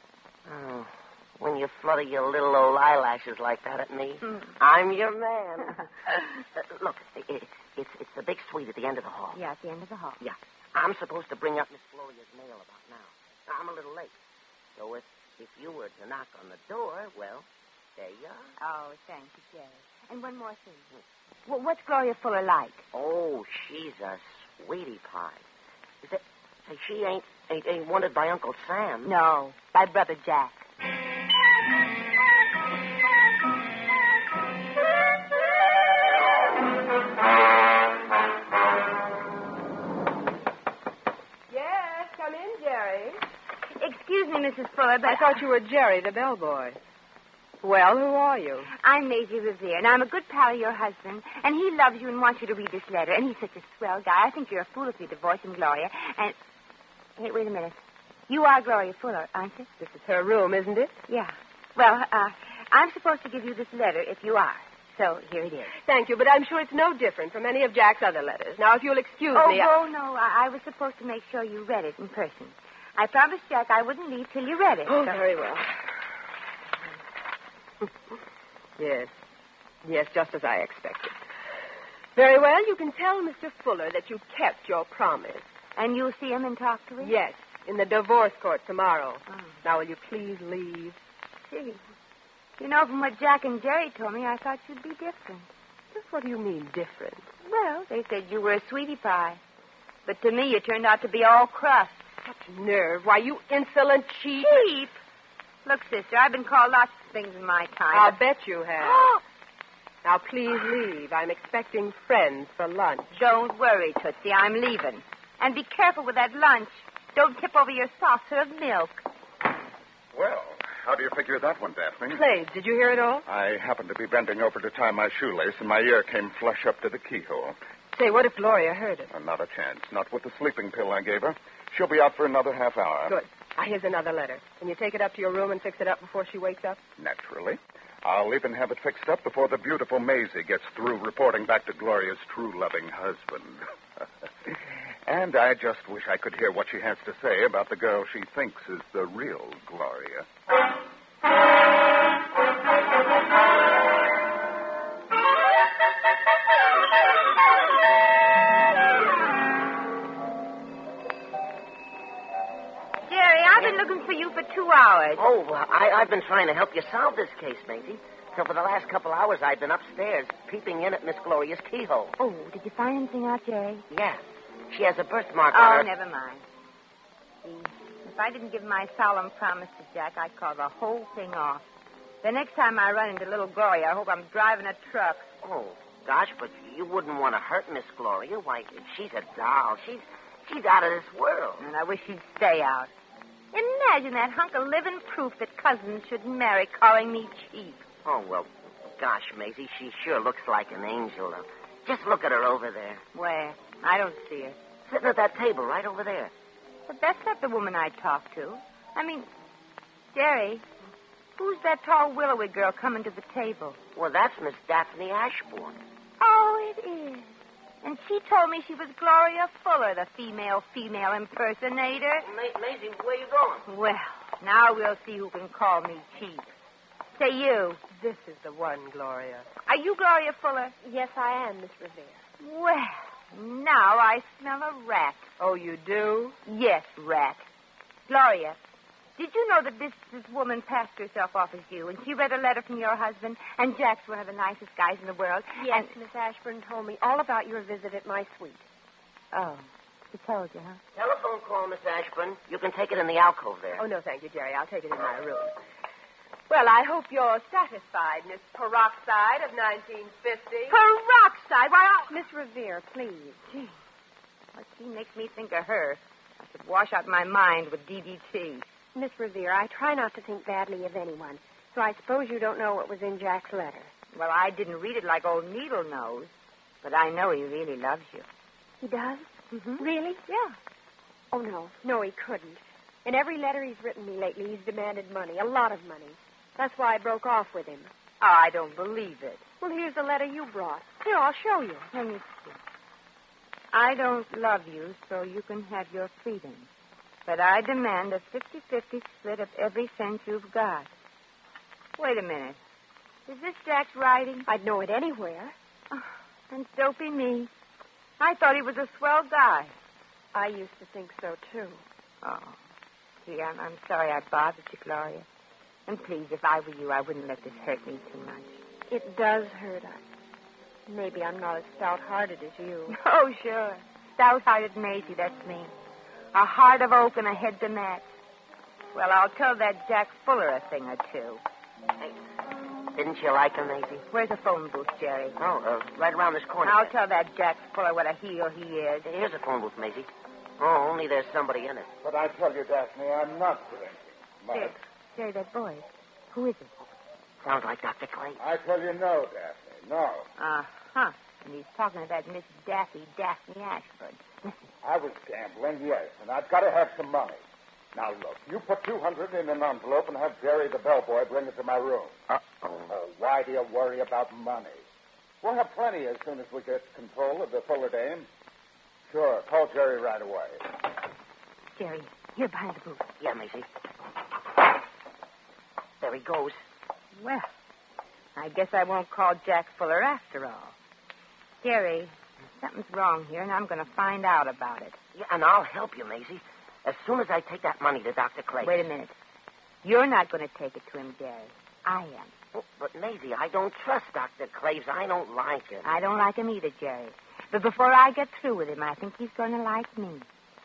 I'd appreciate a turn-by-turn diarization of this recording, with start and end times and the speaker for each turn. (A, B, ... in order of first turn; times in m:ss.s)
0:00.4-0:09.4 A
0:09.3-0:10.2 B
0:10.2-0:14.1 A
0:14.8-0:17.4 A
0:18.0-0:18.5 A
0:18.6-0:20.9 B
0:21.5-0:22.8 B
0:22.9-0:25.4 A
0:26.0-0:29.1 A
0:29.0-0:30.6 B
0:41.5-0:43.2 C
0:43.8-0:45.4 B
0:45.0-0:46.8 C
0:47.6-0:48.7 C
0:48.7-0:56.4 B
0:57.2-0:59.7 B
0:59.8-1:00.9 C
1:01.1-1:05.7 B
1:05.8-1:09.7 C
1:09.3-1:15.2 B
1:14.8-1:15.7 C
1:18.8-1:19.1 C
1:19.8-1:21.2 C
1:22.2-1:25.5 C
1:25.8-1:27.1 B
1:27.0-1:31.0 C
1:31.5-1:31.8 B
1:32.6-1:35.5 B
1:35.9-1:37.3 C
1:37.4-1:39.4 B
1:40.0-1:42.0 B
1:42.2-1:44.7 C
1:44.4-1:45.0 B
1:45.6-1:48.2 B
1:47.9-1:49.1 C
1:48.8-1:49.2 B
1:50.0-1:53.1 C
1:53.1-1:59.0 B
2:00.1-2:02.2 D
2:02.1-2:03.2 C
2:03.3-2:07.6 D
2:07.9-2:09.1 C
2:09.1-2:13.2 D
2:13.1-2:16.8 C
2:17.0-2:30.2 D
2:43.1-2:45.2 B
2:45.2-2:52.1 A
2:52.2-2:53.8 B
2:53.9-2:55.9 A
2:55.5-2:56.4 B
2:57.4-3:01.6 B
3:02.2-3:05.3 B
3:05.4-3:11.6 A
3:11.6-3:12.9 B
3:13.5-3:17.8 B
3:18.0-3:23.0 A
3:23.1-3:24.6 B
3:24.9-3:26.3 A
3:26.9-3:29.3 B
3:30.1-3:30.6 B
3:31.4-3:33.8 B
3:33.9-3:35.8 A
3:36.2-3:42.2 B
3:42.2-3:43.6 A
3:43.7-3:46.5 B
3:47.2-3:47.8 B
3:47.9-3:49.5 C
3:49.6-3:50.7 B
3:50.8-3:52.2 E
3:52.4-3:55.2 B
3:55.4-3:56.4 C
3:56.4-3:57.4 B
3:58.1-3:58.6 B
3:59.2-4:05.9 B
4:05.6-4:08.6 E
4:09.3-4:10.8 B
4:10.9-4:13.8 A
4:13.8-4:15.6 C
4:16.5-4:20.8 C
4:20.7-4:22.1 B
4:22.1-4:23.4 E
4:24.5-4:28.6 B
4:28.9-4:33.9 E
4:34.1-4:36.3 B
4:36.8-4:38.2 B
4:38.8-4:40.5 E
4:39.5-4:39.8 B
4:41.3-4:47.9 E
4:48.2-4:49.4 B
4:49.6-4:51.9 E
4:51.9-4:52.6 B
4:53.7-4:56.7 B
4:57.2-5:00.9 B
5:02.0-5:02.6 B
5:03.3-5:04.5 B
5:04.5-5:05.5 E
5:05.9-5:07.5 B
5:08.2-5:09.7 B
5:10.3-5:11.8 E
5:12.2-5:12.6 B
5:13.2-5:15.2 B
5:15.9-5:18.6 B
5:18.9-5:20.0 E
5:20.9-5:23.0 E
5:22.9-5:25.7 B
5:26.3-5:28.0 B
5:28.9-5:31.4 B
5:32.9-5:34.0 A
5:34.1-5:35.4 B
5:35.4-5:36.9 A
5:36.6-5:39.1 B
5:39.0-5:40.1 A
5:40.6-5:41.9 A
5:42.0-5:44.8 D
5:44.5-5:46.7 B
5:47.4-5:48.4 A
5:48.4-5:50.3 D
5:50.4-5:54.5 B
5:54.8-5:57.4 D
5:57.9-6:04.8 D
6:05.4-6:08.3 D
6:09.1-6:10.6 D
6:11.8-6:13.0 B
6:13.2-6:13.7 A
6:16.0-6:16.6 A
6:17.2-6:17.5 B
6:18.4-6:20.7 B
6:21.6-6:25.0 B
6:25.1-6:28.8 A
6:28.6-6:29.1 B
6:29.8-6:32.3 B
6:32.5-6:35.9 A
6:35.8-6:40.3 B